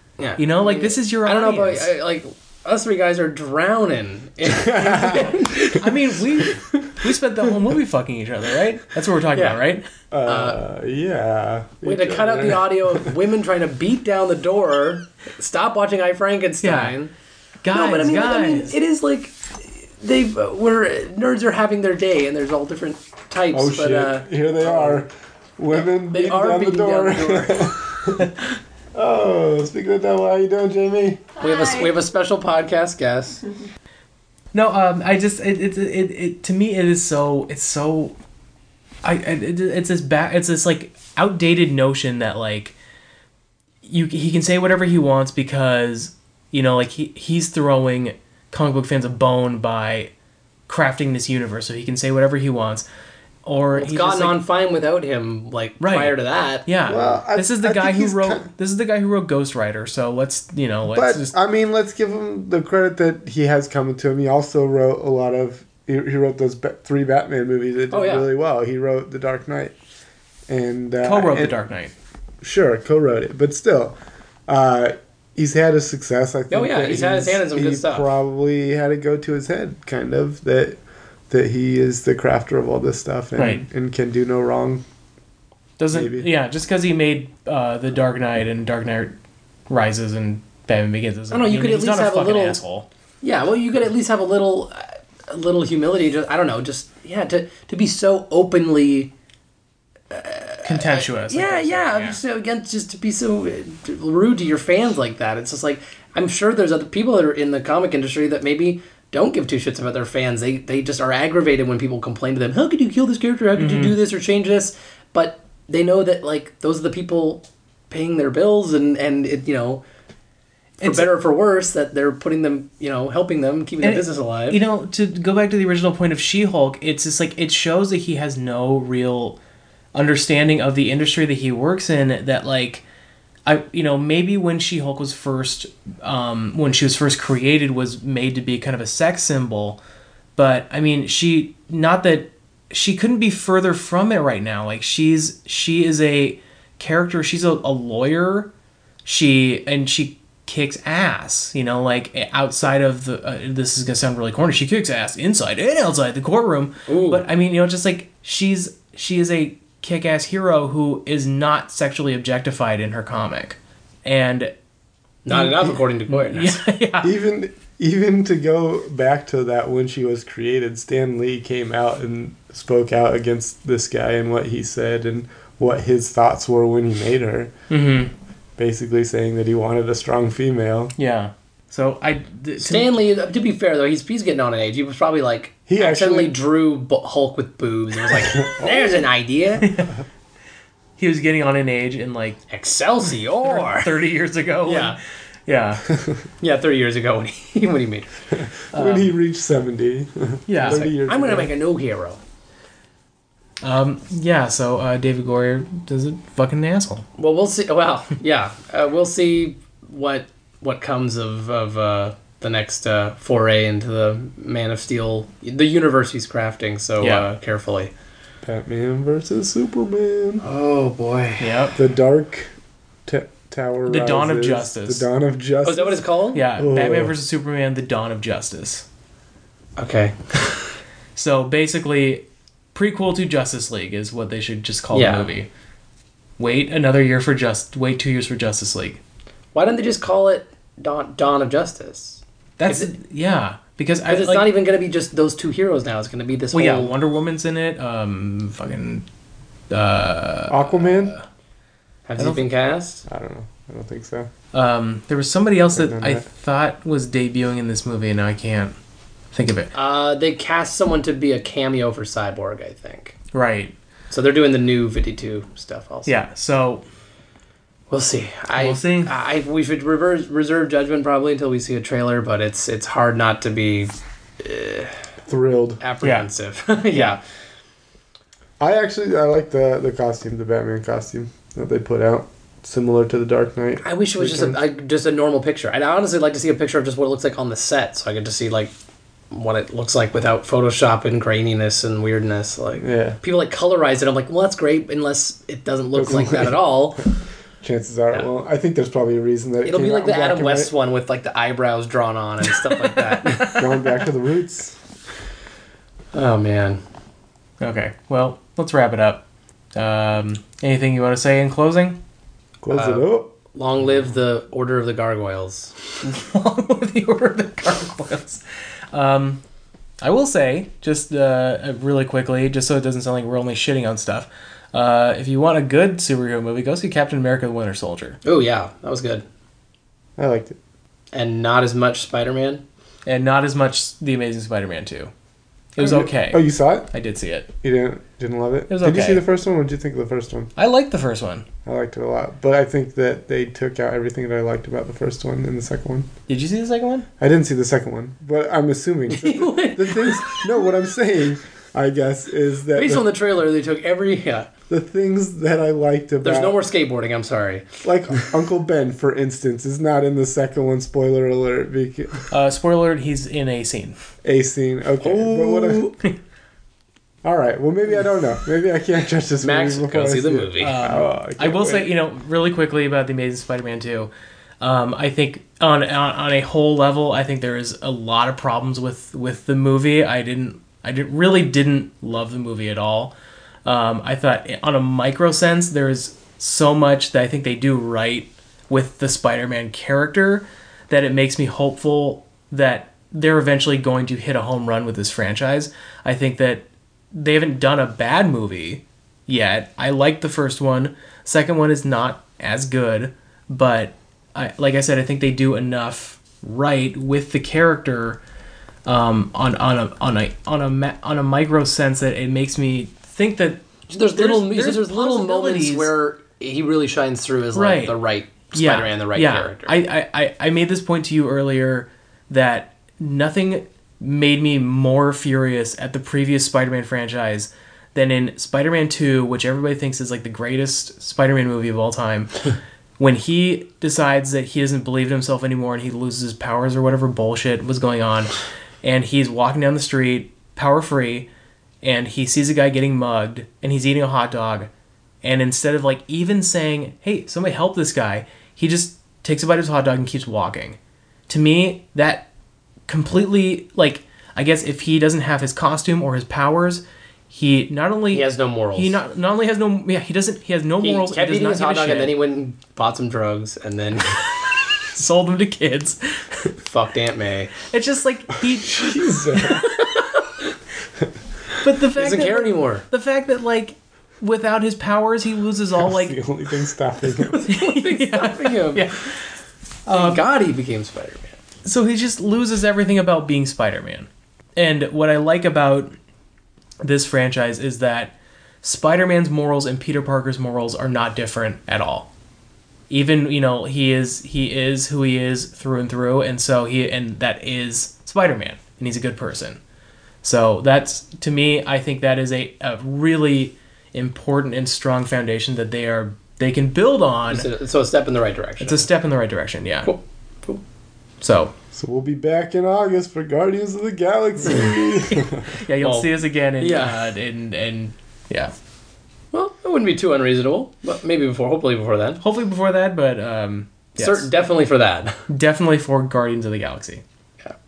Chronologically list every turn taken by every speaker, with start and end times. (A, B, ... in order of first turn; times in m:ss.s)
0:00.2-0:06.0 A
0:00.4-0:01.9 B
0:04.5-0:05.4 C
0:05.0-0:09.8 B
0:09.3-0:09.6 A
0:10.1-0:13.1 C
0:10.3-0:10.6 A
0:11.8-0:17.1 A
0:16.6-0:17.0 B
0:17.6-0:18.7 B
0:17.7-0:25.0 A
0:23.5-0:28.3 C
0:25.7-0:27.7 A
0:28.9-0:31.3 C
0:31.4-0:33.4 A
0:34.5-0:38.2 B
0:39.0-0:42.8 B
0:43.8-0:50.1 B
0:50.7-0:52.9 B
0:53.4-0:54.4 B
0:53.8-0:56.7 A
0:55.8-1:01.3 B
0:56.9-0:58.5 C
1:00.9-1:09.7 C
1:07.9-1:08.3 A
1:10.5-1:11.6 C
1:11.0-1:11.9 B
1:12.4-1:14.0 C
1:14.5-1:20.8 C
1:16.5-1:18.1 A
1:21.3-1:24.8 C
1:23.4-1:23.6 B
1:25.8-1:29.2 B
1:25.9-1:26.3 C
1:29.7-1:32.9 B
1:31.3-1:32.6 A
1:33.2-1:39.1 A
1:40.1-1:59.8 A
1:40.6-1:42.2 B
1:53.6-1:54.0 B
2:00.8-2:01.1 B
2:00.8-2:04.6 A
2:03.8-2:09.4 B
2:10.0-2:12.8 B
2:13.5-2:19.8 B
2:20.4-2:28.5 B
2:29.0-2:44.5 B
2:36.9-2:37.3 A
2:45.2-2:46.6 A
2:45.3-2:47.1 B
2:47.0-2:57.5 C
2:57.7-2:58.1 B
2:58.6-3:00.9 C
3:01.0-3:03.0 B
3:02.6-3:09.7 A
3:05.7-3:06.4 C
3:08.2-3:09.0 C
3:09.6-3:10.0 B
3:11.0-3:12.4 B
3:12.5-3:13.9 A
3:13.4-3:15.8 B
3:14.6-3:15.0 A
3:16.4-3:18.1 A
3:18.4-3:21.5 C
3:18.7-3:19.1 B
3:20.5-3:20.9 B
3:20.6-3:22.2 A
3:23.6-3:27.0 B
3:27.2-3:37.9 A
3:37.0-3:37.3 B
3:38.4-3:40.4 C
3:40.4-3:41.6 A
3:41.4-3:41.8 B
3:41.8-3:42.5 C
3:43.1-3:46.0 C
3:43.9-3:45.0 B
3:45.6-3:46.4 A
3:46.3-3:48.9 B
3:46.6-3:47.1 C
3:49.8-3:50.6 A
3:51.2-3:55.5 B
3:54.9-3:55.3 A
3:56.4-3:59.0 B
3:59.5-4:02.9 A
4:02.6-4:04.5 B
4:04.1-4:07.0 A
4:06.5-4:09.1 B
4:09.7-4:11.2 B
4:10.5-4:11.2 C
4:12.1-4:13.0 A
4:12.2-4:12.4 B
4:13.1-4:14.3 C
4:14.5-4:18.8 B
4:15.8-4:16.2 C
4:19.3-4:19.7 B
4:19.7-4:23.2 A
4:23.3-4:23.8 B
4:24.1-4:26.2 A
4:26.1-4:26.8 B
4:27.9-4:35.0 A
4:28.5-4:29.1 B
4:35.3-4:35.8 C
4:35.8-4:37.2 A
4:36.0-4:36.3 B
4:36.9-4:37.2 B
4:38.6-4:44.6 C
4:43.8-4:48.7 A
4:49.3-4:57.1 A
4:52.8-4:53.2 C
4:56.0-4:56.6 C
4:57.6-5:00.7 C
4:59.6-5:03.8 A
5:02.8-5:03.6 B
5:03.4-5:04.8 C
5:06.1-5:06.8 A
5:07.6-5:12.0 B
5:12.6-5:13.3 C
5:12.7-5:15.8 A
5:16.0-5:19.4 B
5:20.0-5:28.2 B
5:28.2-5:29.2 A
5:30.2-5:30.6 C
5:31.1-5:32.6 A
5:33.1-5:35.1 B
5:35.8-5:37.5 B
5:35.8-5:36.9 C
5:37.6-5:40.5 C
5:38.7-5:39.2 B
5:40.6-5:41.5 B
5:41.6-5:46.1 C
5:46.3-5:47.1 B
5:47.2-5:53.1 C
5:49.1-5:50.6 A
5:52.7-5:54.5 A
5:54.7-5:56.6 C
5:56.2-5:57.8 A
5:57.8-6:02.2 C
6:02.3-6:04.0 B
6:04.2-6:05.8 C
6:05.0-6:05.9 A
6:07.2-6:11.9 C
6:09.4-6:10.8 A
6:10.6-6:23.1 B
6:23.6-6:48.2 B
6:48.9-6:55.9 B
6:53.9-6:59.8 A
6:57.5-6:58.0 B
6:58.5-7:12.3 B
7:13.0-7:21.3 B
7:21.8-7:24.7 B
7:25.2-7:30.8 B
7:31.3-7:32.3 B
7:32.9-7:42.2 B
7:38.1-7:39.0 A
7:40.8-7:44.3 A
7:44.9-7:46.5 B
7:46.6-7:47.6 A
7:47.7-7:49.9 B
7:48.7-7:49.7 C
7:51.6-7:56.2 B
7:52.0-7:52.8 A
7:55.8-7:57.5 C
7:57.3-7:58.9 A
7:57.4-7:59.2 B
7:59.9-8:00.2 B
7:59.9-8:01.4 A
8:01.6-8:06.0 B
8:06.8-8:12.1 B
8:12.9-8:19.6 B
8:20.2-8:27.5 B
8:27.3-8:28.9 A
8:28.6-8:29.9 B
8:29.9-8:30.6 A
8:31.2-8:31.5 B
8:31.7-8:35.6 C
8:35.1-8:38.5 B
8:35.8-8:37.1 A
8:39.3-8:42.2 A
8:42.2-8:44.3 B
8:44.0-8:45.2 A
8:45.3-8:47.0 B